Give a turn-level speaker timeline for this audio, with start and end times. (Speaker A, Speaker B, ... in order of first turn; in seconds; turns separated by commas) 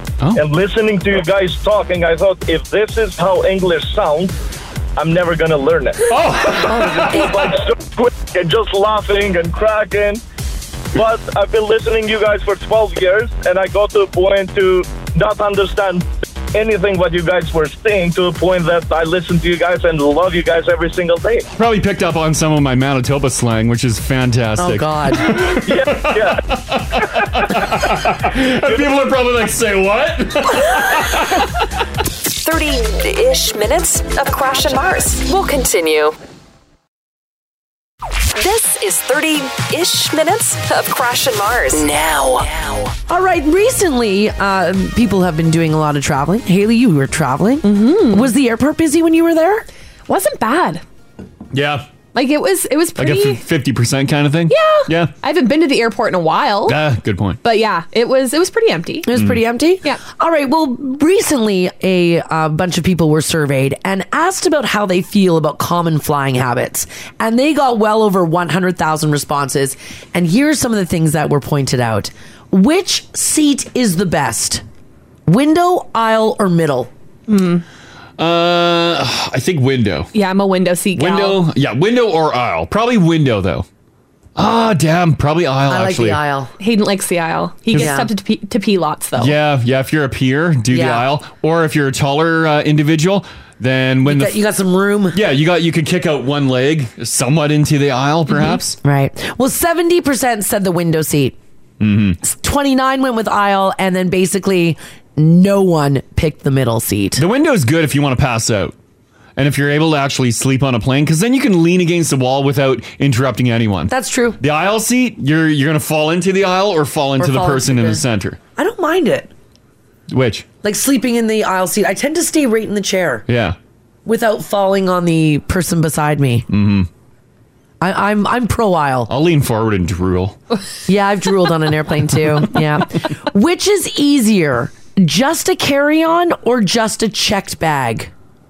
Speaker A: 0.3-4.3, Speaker A: 5.0-10.2, Speaker B: 6.1-7.3, Speaker C: 6.7-7.5, Speaker A: 10.9-21.5, Speaker B: 21.6-31.6, Speaker C: 24.6-25.3, Speaker A: 25.3-27.6, Speaker D: 32.4-36.2, Speaker D: 38.4-42.9, Speaker C: 43.1-49.7, Speaker E: 47.6-48.3, Speaker E: 50.1-50.8, Speaker B: 51.5-51.9, Speaker E: 52.1-53.4, Speaker B: 53.0-55.1, Speaker E: 54.5-56.8, Speaker B: 56.7-57.4, Speaker E: 57.4-59.1, Speaker C: 59.0-74.6, Speaker B: 59.1-59.4, Speaker C: 75.3-76.9, Speaker E: 77.3-77.6, Speaker B: 78.2-80.1, Speaker E: 80.1-81.4, Speaker B: 81.0-83.7, Speaker B: 84.4-86.2, Speaker C: 85.7-86.5, Speaker E: 86.6-89.3, Speaker C: 87.7-88.1, Speaker B: 89.2-94.4, Speaker C: 90.7-91.1, Speaker C: 94.1-95.2, Speaker B: 95.1-98.8, Speaker E: 98.3-98.6, Speaker C: 98.8-101.4, Speaker B: 101.8-102.2, Speaker C: 102.2-107.2, Speaker B: 107.2-108.7, Speaker B: 109.4-118.4, Speaker C: 113.9-114.4, Speaker C: 117.2-118.0, Speaker C: 118.6-119.3, Speaker B: 120.1-120.5, Speaker C: 120.6-123.2, Speaker B: 123.3-123.6, Speaker C: 124.0-126.5, Speaker B: 126.5-126.9, Speaker C: 127.8-129.1, Speaker B: 129.1-130.4, Speaker C: 130.9-138.1